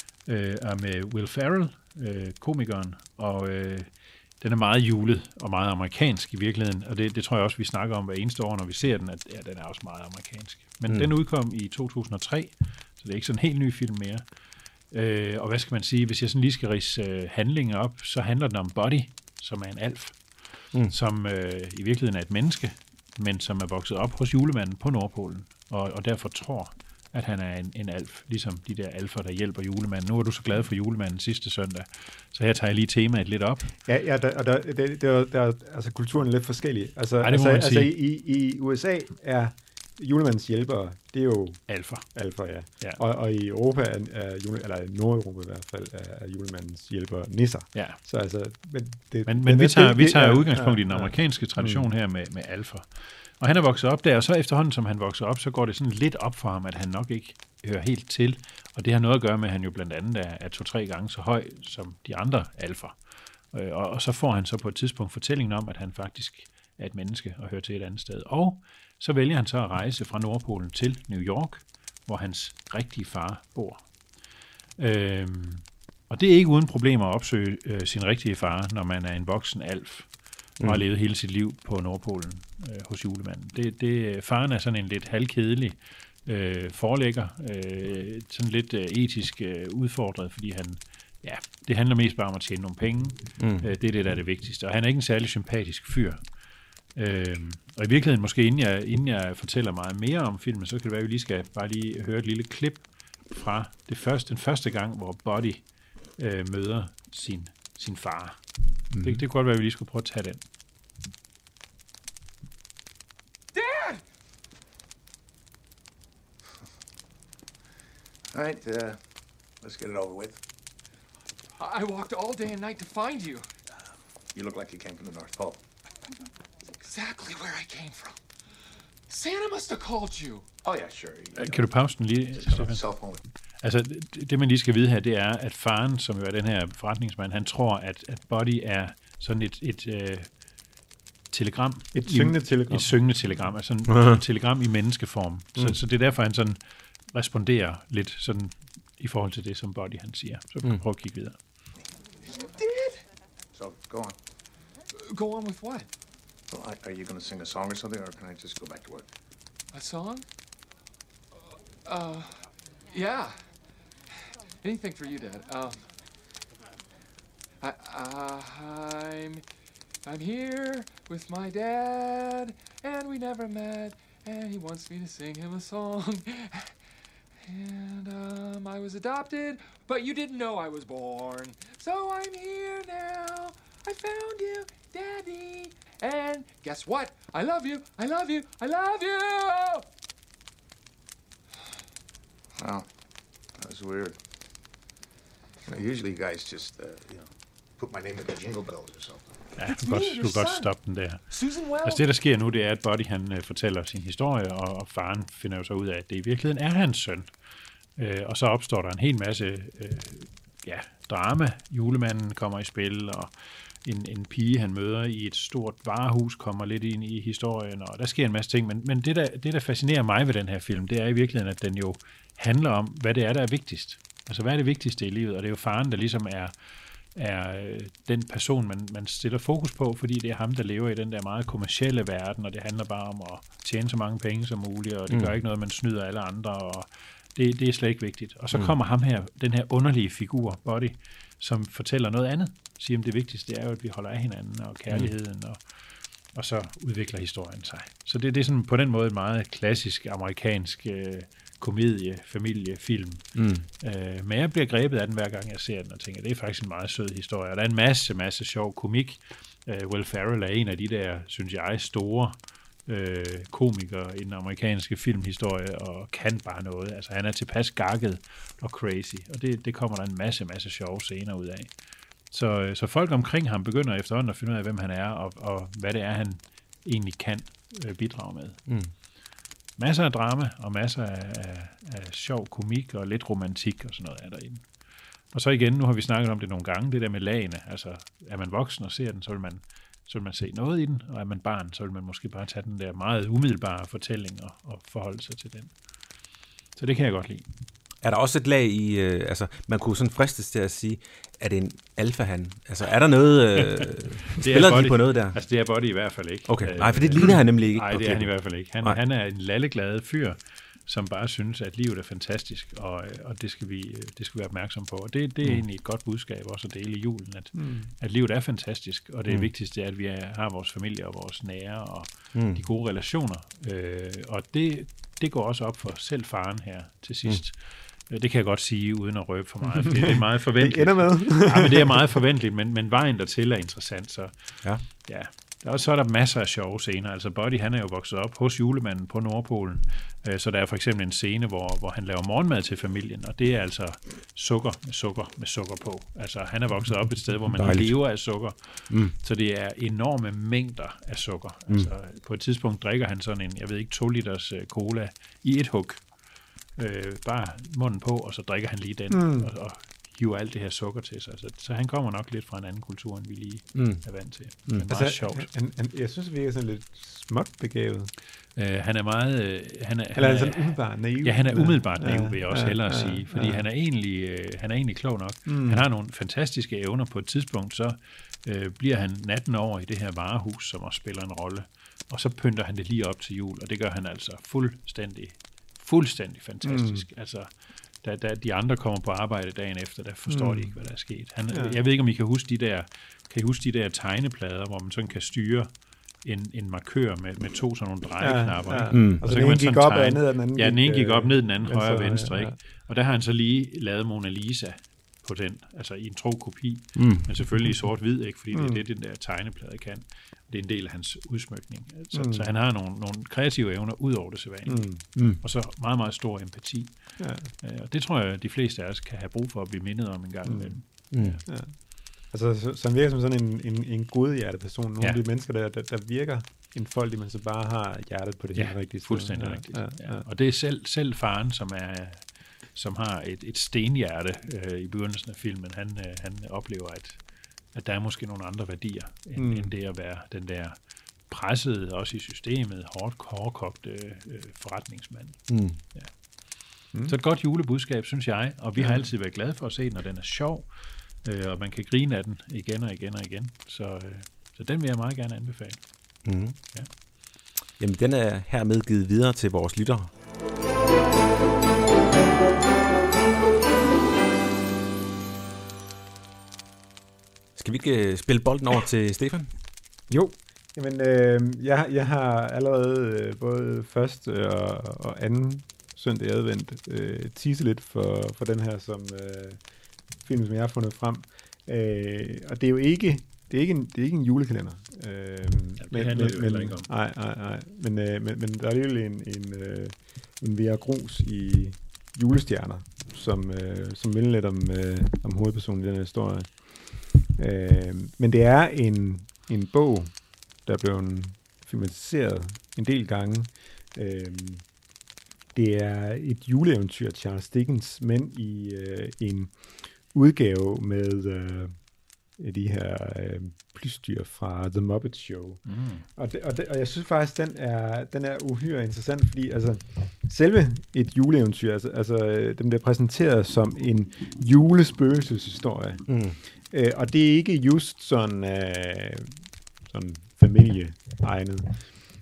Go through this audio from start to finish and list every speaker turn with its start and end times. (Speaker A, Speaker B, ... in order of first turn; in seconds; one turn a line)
Speaker A: 0.3-14.2
Speaker A: 14.9-33.7
Speaker B: 33.9-51.9
Speaker A: 37.2-38.0
Speaker A: 41.7-42.1
Speaker A: 42.7-43.0
Speaker A: 47.7-48.0
Speaker A: 49.3-63.0
Speaker A: 63.5-74.0
Speaker A: 74.8-96.2
Speaker C: 93.4-93.7
Speaker A: 97.0-110.4
Speaker B: 108.9-109.2
Speaker D: 113.5-114.0
Speaker E: 118.3-119.0
Speaker E: 119.6-120.4
Speaker D: 121.6-123.5
Speaker E: 124.3-125.6
Speaker D: 126.8-128.2
Speaker D: 129.1-130.5
Speaker E: 130.6-131.7
Speaker A: 131.4-132.8
Speaker E: 132.4-133.2
Speaker A: 133.6-140.3
Speaker A: 141.3-146.6
Speaker B: 141.9-143.2
Speaker C: 143.9-144.2
Speaker A: 147.1-151.4
Speaker D: 152.4-153.0
Speaker E: 153.5-154.2
Speaker D: 155.1-155.9
Speaker E: 156.5-159.1
Speaker D: 159.7-160.3
Speaker D: 161.8-163.4
Speaker D: 164.6-165.9
Speaker D: 167.6-169.4
Speaker D: 170.0-176.8
Speaker D: 177.4-189.9
Speaker E: 192.6-192.9
Speaker E: 193.6-194.2
Speaker E: 195.7-199.3
Speaker A: 199.6-207.3
Speaker D: 199.7-200.7
Speaker D: 201.3-202.0
Speaker A: 208.0-213.3
Speaker A: 213.8-226.5
Speaker A: 227.2-245.7
Speaker A: 246.3-271.7
Speaker C: 253.3-253.7
Speaker A: 272.3-278.6
Speaker C: 278.7-278.9
Speaker A: 279.8-284.7
Speaker A: 285.3-295.7
Speaker A: 296.8-297.4
Speaker C: 298.0-305.4
Speaker A: 303.8-356.1
Speaker C: 306.5-309.0
Speaker B: 317.5-317.9
Speaker C: 322.3-322.6
Speaker B: 329.8-332.2
Speaker C: 347.5-348.2
Speaker A: 356.8-365.5
Speaker B: 359.1-359.5
Speaker C: 363.8-364.8
Speaker B: 364.8-368.1
Speaker A: 368.6-387.5
Speaker B: 370.1-373.6
Speaker B: 375.5-375.9
Speaker B: 386.6-387.1
Speaker A: 388.0-395.7
Speaker B: 390.3-390.8
Speaker B: 391.5-391.8
Speaker A: 396.2-417.0
Speaker B: 398.2-402.6
Speaker C: 398.9-399.2
Speaker C: 407.0-407.3
Speaker B: 407.6-407.9
Speaker B: 408.5-408.8
Speaker B: 412.1-412.5
Speaker B: 414.7-415.0
Speaker B: 417.2-417.5
Speaker A: 417.6-421.4
Speaker B: 420.4-430.3
Speaker C: 421.1-421.4
Speaker A: 428.6-437.2
Speaker A: 437.7-440.8
Speaker B: 439.4-439.7
Speaker A: 441.3-446.1
Speaker C: 445.5-445.8
Speaker A: 447.0-450.7
Speaker B: 448.8-449.1
Speaker A: 451.2-456.9
Speaker C: 456.2-456.6
Speaker C: 457.8-460.1
Speaker C: 467.6-469.5
Speaker B: 470.1-479.6
Speaker B: 480.2-504.6
Speaker A: 485.8-486.9
Speaker B: 505.5-511.8
Speaker B: 512.4-515.6
Speaker A: 515.7-516.1
Speaker B: 516.1-529.3
Speaker C: 526.1-526.4
Speaker B: 529.9-531.8